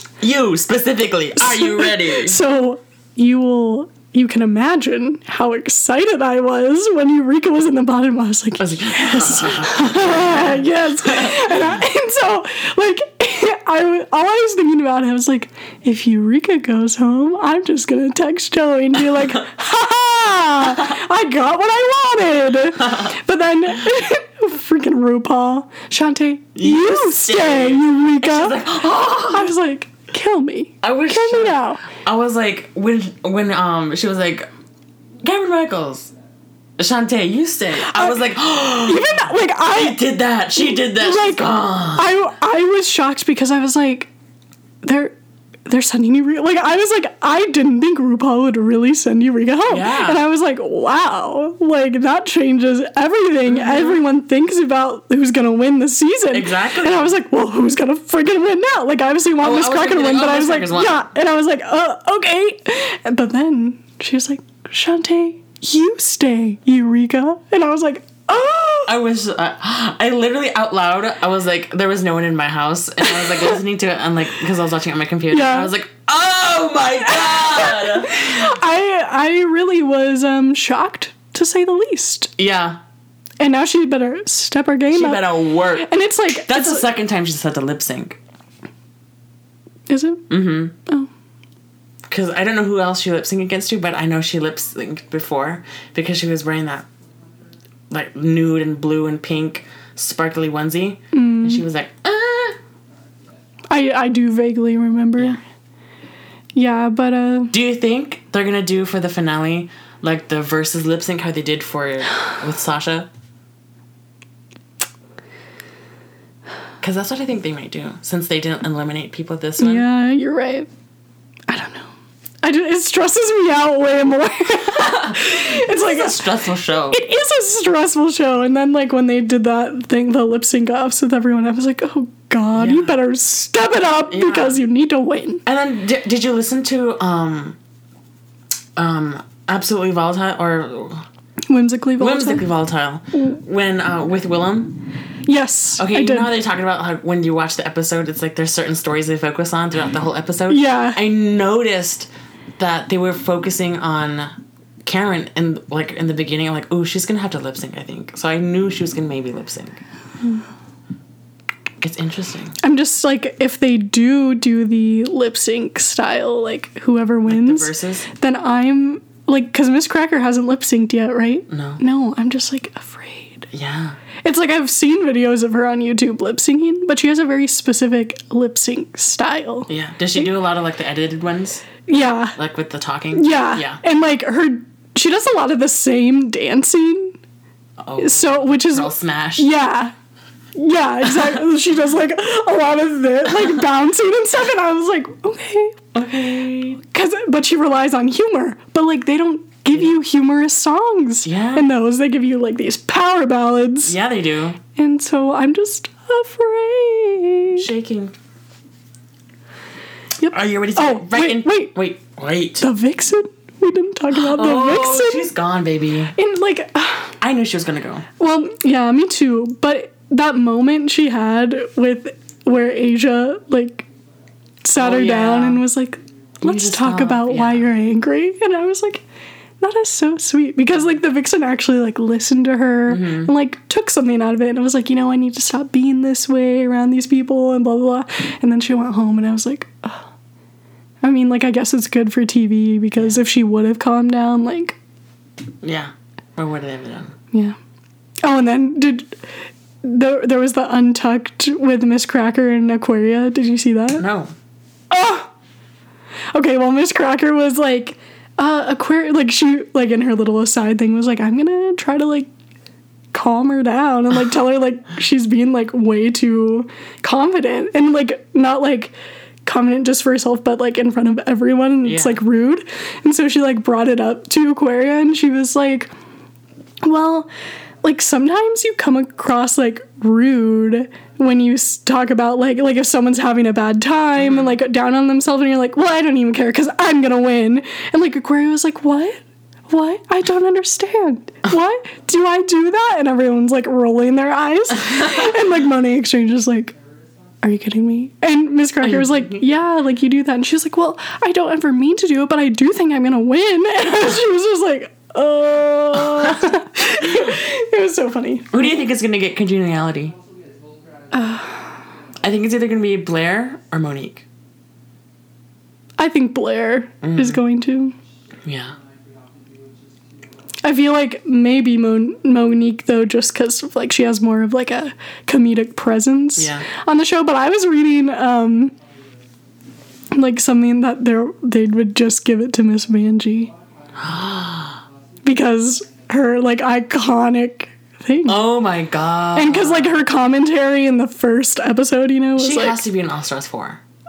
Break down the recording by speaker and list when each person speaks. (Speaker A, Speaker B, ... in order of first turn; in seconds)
Speaker A: 0.2-2.4, 8.6-11.5, 19.1-19.4, 22.8-23.1, 26.5-29.5, 30.8-34.5, 35.2-36.1, 36.8-42.1, 49.7-50.2, 53.5-54.0, 56.3-57.1, 59.4-61.1, 68.8-78.5, 82.4-82.8, 84.9-88.2, 90.3-90.7, 92.1-96.9, 97.9-102.6, 107.5-113.1, 116.8-119.8, 124.7-127.0, 132.5-133.0, 134.1-134.6, 135.4-137.6, 138.8-141.1, 142.0-144.8, 145.8-154.3, 154.8-159.8, 161.8-162.6, 167.3-168.1, 171.5-171.8, 173.5-174.0, 179.7-181.8, 182.3-183.8, 187.8-189.5, 195.9-196.8, 201.2-201.7, 203.8-204.6, 207.6-208.1, 210.3-212.7, 214.1-216.1, 217.2-218.1, 224.8-225.6, 226.4-227.7, 232.9-233.3, 245.6-247.1, 254.0-254.3, 271.8-272.2, 284.2-284.5, 298.8-299.4, 308.5-310.1, 312.2-314.2, 317.0-317.4, 318.4-318.7, 326.4-326.7, 333.9-334.8, 338.3-340.0, 342.4-343.8
Speaker B: 1.4-31.8, 37.8-40.0, 40.5-44.1, 44.8-45.1, 45.7-68.9, 73.0-73.6, 75.3-75.7, 77.0-82.3, 83.4-86.9, 89.9-90.2, 101.1-101.7, 103.7-105.4, 106.5-107.5, 119.6-120.7, 121.5-121.9, 122.4-126.2, 126.9-135.4, 141.5-142.4, 145.2-146.3, 150.5-151.0, 162.6-173.5, 174.2-180.2, 181.9-182.3, 183.1-187.2, 188.0-189.9, 190.5-195.8, 196.8-203.9, 204.7-207.7, 210.2-211.7, 212.6-215.3, 216.1-217.2, 218.2-223.8, 224.6-229.0, 229.6-240.0, 241.0-244.8, 248.2-249.2, 249.8-254.0, 254.9-255.3, 256.3-262.3, 263.1-268.9, 269.4-275.9, 276.8-277.3, 277.8-296.7, 297.4-308.7, 311.1-311.8, 316.0-317.9, 320.6-328.7, 330.1-333.5, 335.2-338.4, 339.3-342.8